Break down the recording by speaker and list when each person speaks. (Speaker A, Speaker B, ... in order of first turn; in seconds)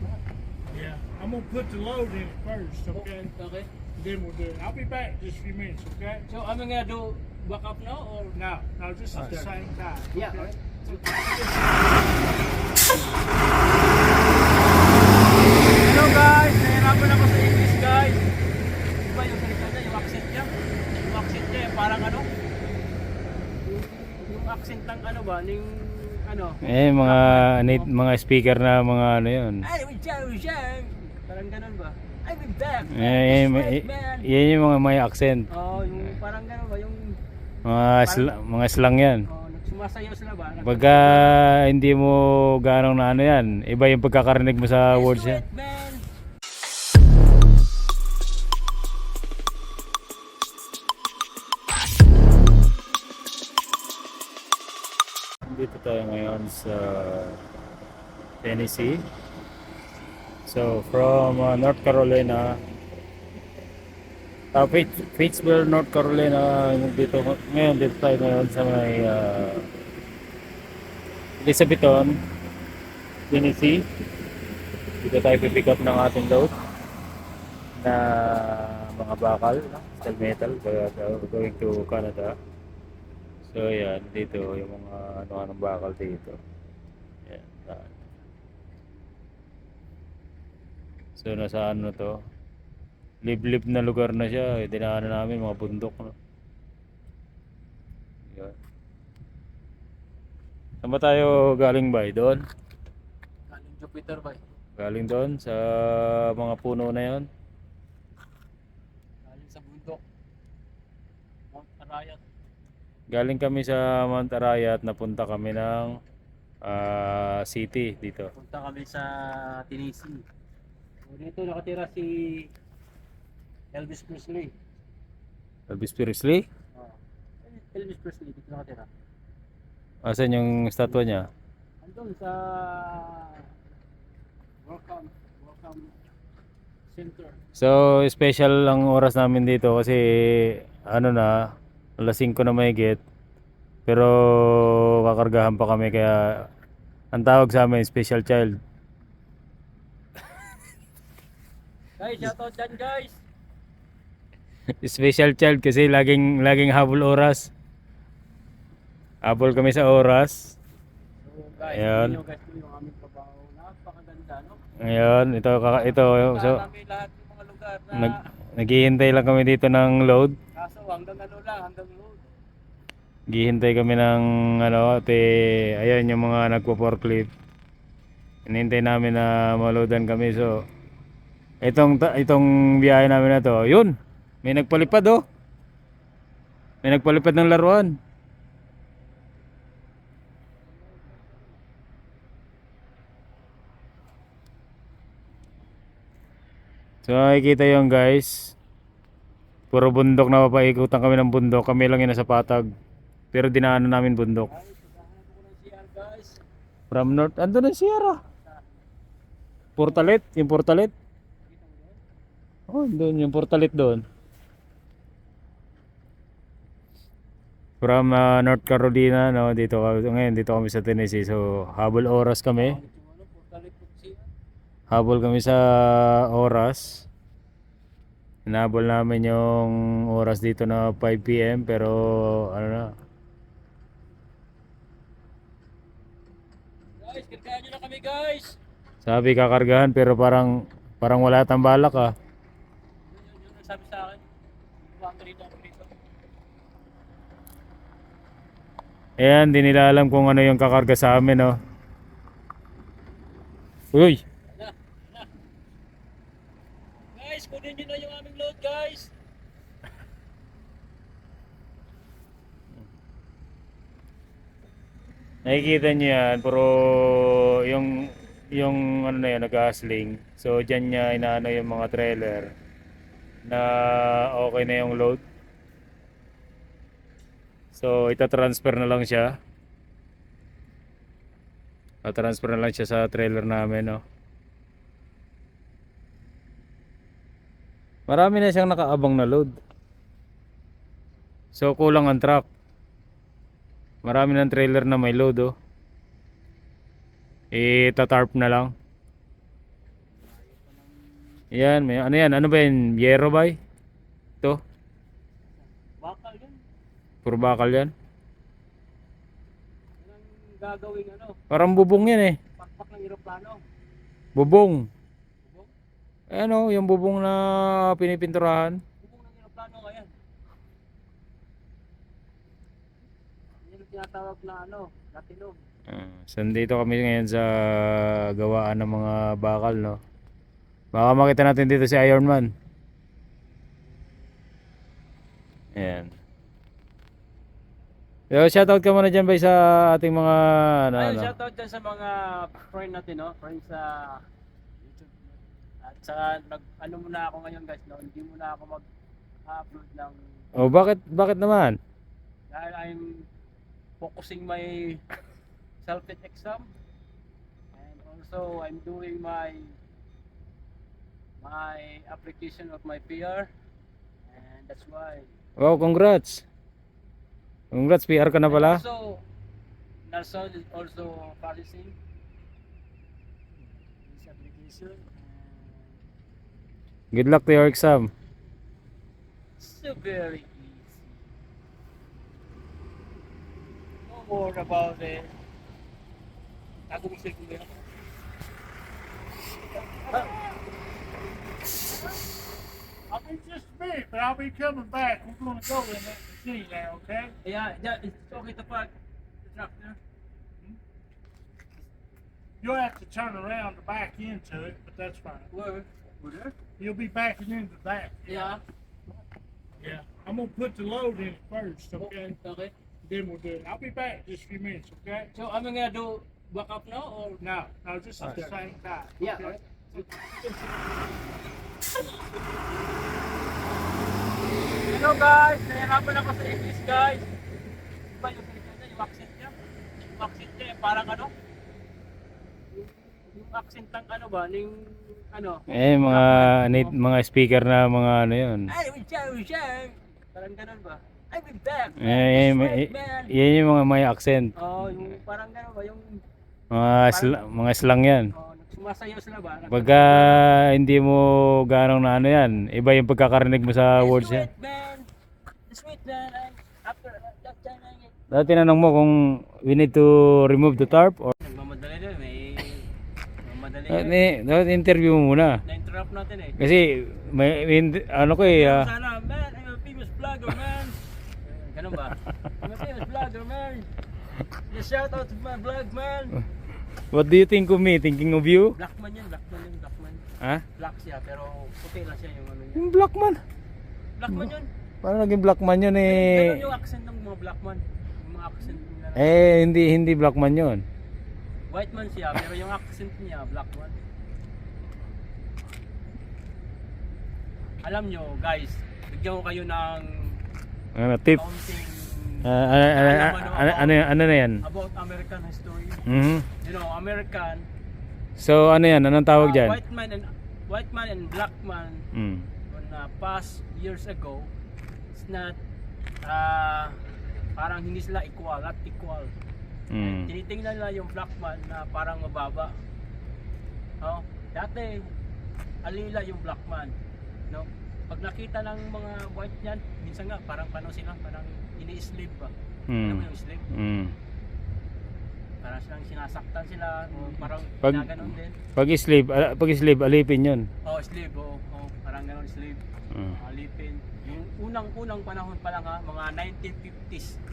Speaker A: 0.7-3.3, 4.0-6.2, 8.3-11.7, 393.1-397.3, 402.6-405.5, 406.8-408.6, 409.8-412.3, 413.0-415.3, 417.4-420.1
Speaker B: 2.9-3.7, 6.3-8.4, 9.2-9.5, 10.1-11.6, 15.8-18.2, 19.0-20.5, 21.0-22.2, 23.6-27.9, 29.6-34.3, 35.5-37.1, 38.0-38.3, 39.3-41.3, 44.9-46.0, 103.5-104.4, 109.2-110.0, 111.5-112.2, 118.3-120.2, 121.0-122.5, 123.7-124.5, 126.7-128.9, 131.8-133.5, 134.6-135.9, 136.9-137.4, 152.0-153.2, 161.2-164.6, 165.8-168.3, 170.5-172.2, 190.7-191.5, 204.5-206.4, 208.3-208.8, 209.8-210.1, 211.4-212.0, 222.6-224.3, 237.0-238.6, 243.1-244.3, 244.8-245.9, 254.5-255.3, 257.1-259.1, 300.3-300.6, 305.6-306.6, 310.0-313.6, 315.4-315.7, 319.0-320.2, 323.6-325.6, 340.9-344.2, 344.9-345.3, 345.8-348.8, 349.5-350.2, 352.5-353.3, 354.0-355.0, 355.8-356.7, 357.7-359.7, 361.4-363.5, 364.3-365.3, 368.5-369.2, 370.1-371.9, 374.1-375.9, 379.6-381.1, 384.1-385.3, 386.9-387.8, 389.7-390.3, 397.4-398.9, 399.4-400.0, 405.5-406.5, 408.3-408.6, 412.0-412.7, 415.3-417.4, 419.2-420.7, 424.9-427.3, 428.1-429.5, 430.1-431.3, 432.7-436.9, 438.7-443.3, 444.6-446.2, 447.1-447.4, 448.3-450.4, 453.9-455.1, 455.7-458.1, 461.4-462.9, 463.4-464.2, 465.6-466.6, 468.4-473.9, 474.5-476.4, 478.7-480.2, 480.8-482.9, 484.2-484.7, 486.0-489.3, 491.7-494.0, 497.8-500.4, 501.3-503.9, 504.6-506.0, 506.6-507.7, 509.4-512.0, 512.7-514.5, 515.1-515.6, 516.2-517.0, 517.5-519.3, 520.0-522.7, 524.0-525.1, 525.8-526.9, 527.5-533.6, 535.6-538.5, 540.8-547.4
Speaker C: 26.6-29.6, 32.9-35.5, 37.6-39.2, 40.6-45.4, 55.5-57.4, 58.4-59.0, 60.5-62.6, 64.5-69.7, 71.4-72.2, 73.3-73.8, 75.0-76.5, 77.8-82.3, 83.5-86.4, 87.3-87.9, 91.2-92.1, 93.2-96.1, 100.8-102.4, 104.8-107.3, 113.1-115.9, 116.7-118.3, 125.7-126.4, 130.0-131.3, 137.6-141.4, 142.0-143.0, 143.8-146.5, 147.1-148.5, 154.8-157.5, 159.2-160.6, 161.6-162.2, 164.9-166.6, 167.9-170.3, 173.3-177.3, 178.5-180.6, 181.6-185.2, 186.8-187.9, 197.0-198.5, 199.7-202.7, 203.3-204.5, 206.9-208.2, 209.8-210.9, 212.7-214.0, 217.8-222.8, 224.9-227.1, 228.5-232.9, 239.0-240.5, 241.0-242.1, 249.2-251.5, 253.9-254.2, 265.4-272.5, 273.4-275.2, 277.7-279.3, 282.0-284.0, 288.1-289.6, 291.5-292.4, 294.0-295.5, 297.5-298.7, 301.5-303.6, 307.2-307.9, 311.5-312.4, 314.4-314.8, 316.3-318.8, 325.9-330.0, 330.9-332.5, 335.8-336.1, 338.3-341.3, 350.6-351.8, 365.6-366.4, 367.7-368.8, 377.1-378.1, 435.7-438.7, 442.0-444.5, 446.7-448.3, 449.7-454.5, 458.3-461.3, 463.9-465.6, 466.6-468.9, 477.1-478.8, 482.8-483.4, 485.0-486.7, 489.1-490.8, 500.9-501.4, 502.4-504.6, 506.1-506.4, 508.4-509.8, 512.1-512.5, 519.9-520.3, 532.9-534.1, 537.8-540.6